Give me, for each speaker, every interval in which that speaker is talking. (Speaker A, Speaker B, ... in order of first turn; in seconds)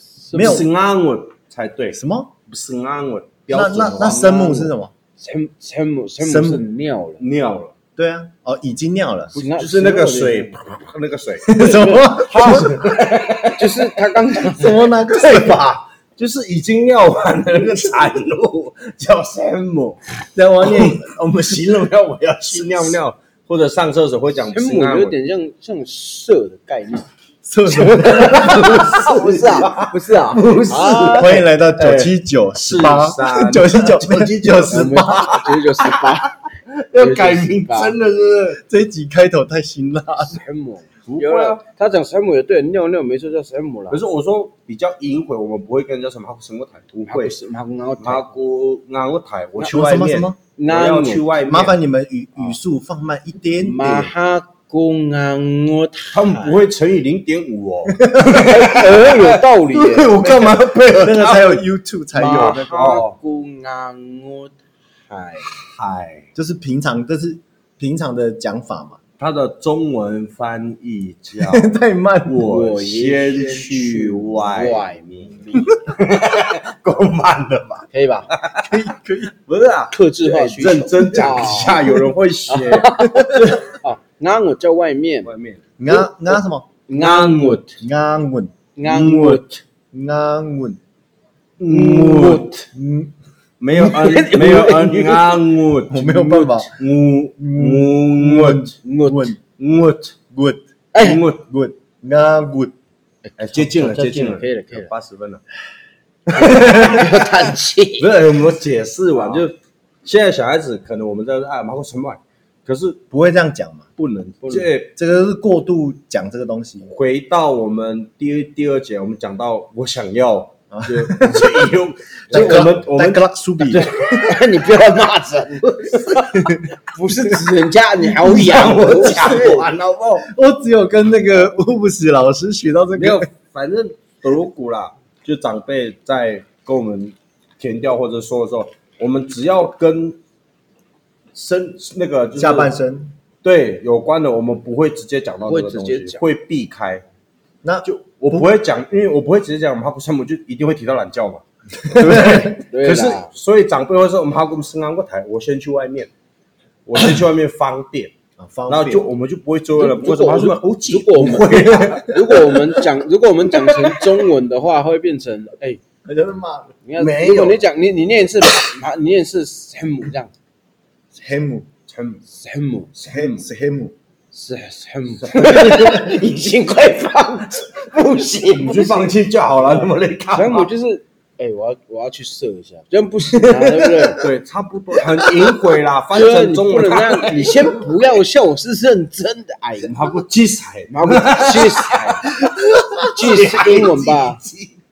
Speaker A: 0.2-0.6, 3.6-7.2, 9.3-10.8, 11.5-12.8, 13.5-14.9, 24.4-27.1, 27.7-31.4, 34.7-36.4, 37.0-38.0, 40.3-44.0, 47.1-48.3, 50.6-51.4, 53.6-56.5, 58.3-60.5, 62.1-64.5, 65.1-65.6, 72.4-75.8, 77.9-78.3, 79.9-85.3, 86.9-87.8, 88.8-89.4, 91.7-92.7, 93.7-95.4, 96.2-96.6, 98.8-99.3, 100.9-101.2, 103.2-104.9, 106.3-108.1, 109.1-109.4, 114.4-114.7, 122.3-122.7, 123.8-126.0, 126.8-129.7, 145.4-146.2, 152.5-153.3, 159.7-165.8, 166.8-170.3, 172.3-172.9, 174.3-179.1, 179.6-184.3, 186.1-189.9, 190.9-192.4, 193.1-194.4
Speaker B: 0.3-0.7, 1.9-2.3, 3.5-4.9, 6.2-6.7, 8.0-9.4, 11.4-12.9, 14.4-15.8, 20.3-21.2, 27.4-29.0, 31.0-35.4, 38.5-40.4, 49.6-50.4, 51.5-54.1, 57.9-58.4, 60.9-63.0, 66.3-69.0, 71.4-72.5, 78.6-79.3, 83.1-83.5, 85.8-86.7, 87.8-88.5, 89.9-90.8, 92.7-93.1, 95.9-96.7, 97.4-99.4, 100.3-100.6, 101.4-102.7, 113.1-113.9, 114.9-116.9, 120.7-121.7, 122.3-123.9, 126.3-126.7, 129.0-129.5, 130.2-133.2, 142.3-143.1, 147.6-148.5, 151.9-152.5, 158.4-159.1, 166.0-166.7, 171.1-171.7, 173.1-173.9, 192.4-193.9
Speaker C: 0.3-4.3, 7.2-7.7, 9.5-11.7, 12.3-14.1, 15.1-20.0, 20.6-25.1, 28.1-38.6, 41.1-41.6, 43.9-47.4, 48.0-51.8, 56.1-61.6, 62.2-63.1, 65.6-66.3, 69.2-71.7, 72.2-78.7, 79.4-83.7, 85.2-85.6, 86.9-87.6, 88.8-89.6, 91.6-92.5, 93.6-98.8, 99.6-100.2, 101.0-101.4, 103.4-105.4, 106.3-107.3, 108.0-113.0, 114.0-114.9, 116.8-124.4, 125.6-126.5, 128.0-130.3, 132.9-140.2, 141.3-142.7, 143.4-147.0, 147.8-156.1, 156.8-158.1, 158.7-162.6, 163.5-164.3, 166.9-167.7, 171.9-172.2, 172.9-173.4, 175.2-175.8, 178.4-180.7, 184.1-187.9, 189.8-192.5, 193.2-194.7